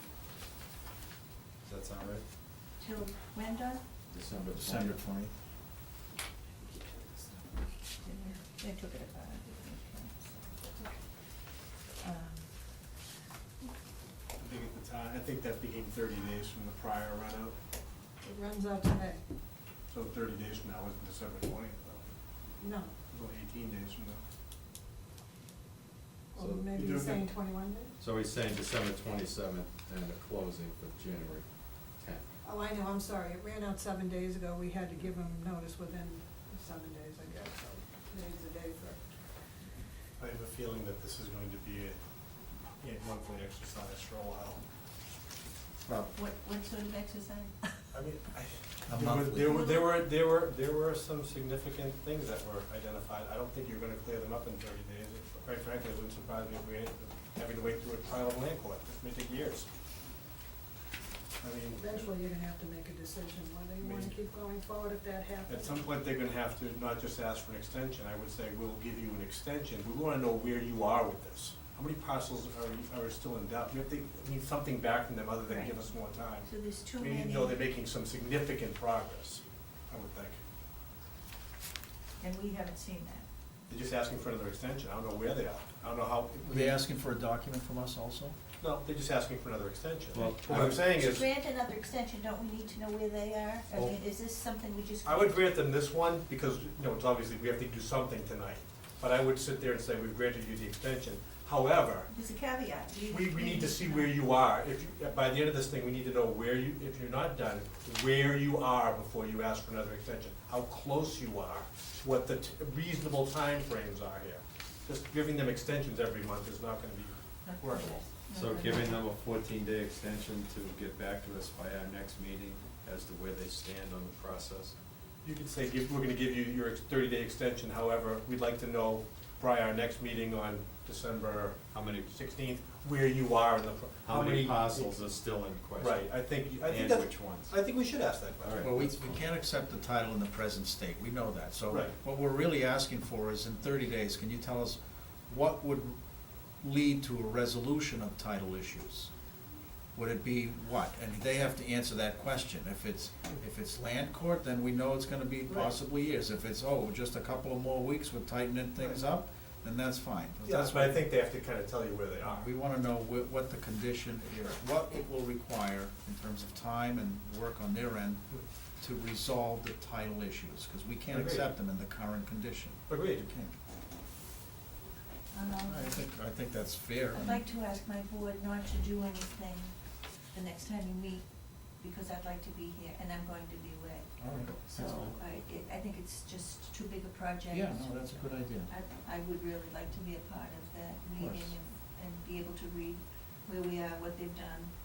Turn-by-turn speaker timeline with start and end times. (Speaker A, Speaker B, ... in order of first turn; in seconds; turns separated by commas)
Speaker A: 1.6-2.2, Speaker B: 2.8-3.8, Speaker A: 4.1-5.0, Speaker C: 4.5-5.3, Speaker B: 8.0-10.6, Speaker B: 12.0-12.5, Speaker D: 14.4-17.6, Speaker E: 18.2-19.2, Speaker D: 19.9-22.1, Speaker E: 22.6-22.9, Speaker D: 23.1-24.2, Speaker E: 26.3-27.9, Speaker A: 26.4-26.7, Speaker D: 26.8-27.2, Speaker A: 28.0-31.4, Speaker A: 32.0-32.2, Speaker E: 32.4-39.0, Speaker D: 40.2-42.0, Speaker D: 42.8-44.6, Speaker B: 46.1-47.8, Speaker D: 47.9-59.7, Speaker C: 48.9-49.8, Speaker D: 61.4-62.1, Speaker E: 61.8-65.8, Speaker D: 63.8-64.2, Speaker D: 65.5-80.4, Speaker B: 75.5-77.6, Speaker B: 82.2-83.3, Speaker D: 83.7-86.8, Speaker C: 86.5-88.4, Speaker D: 88.6-91.3, Speaker A: 90.1-90.8, Speaker C: 90.5-90.7, Speaker B: 90.9-95.4, Speaker D: 95.0-102.1, Speaker B: 102.1-104.2, Speaker D: 103.1-118.0, Speaker B: 117.4-119.0, Speaker A: 118.3-124.8, Speaker D: 125.2-135.0, Speaker A: 131.7-132.1, Speaker A: 134.0-137.6, Speaker D: 135.8-138.7, Speaker A: 138.4-139.2, Speaker C: 138.6-146.0, Speaker D: 141.7-142.0, Speaker C: 146.6-149.1, Speaker C: 149.9-161.0, Speaker D: 158.8-159.0, Speaker D: 160.4-162.5, Speaker C: 162.2-173.5, Speaker D: 171.1-171.5, Speaker D: 172.9-173.3, Speaker B: 175.3-176.0, Speaker C: 175.6-177.4, Speaker B: 177.1-179.8, Speaker B: 180.3-184.1, Speaker C: 184.2-185.1, Speaker A: 184.3-184.7, Speaker B: 184.7-194.7, Speaker C: 187.5-188.7, Speaker C: 191.2-191.6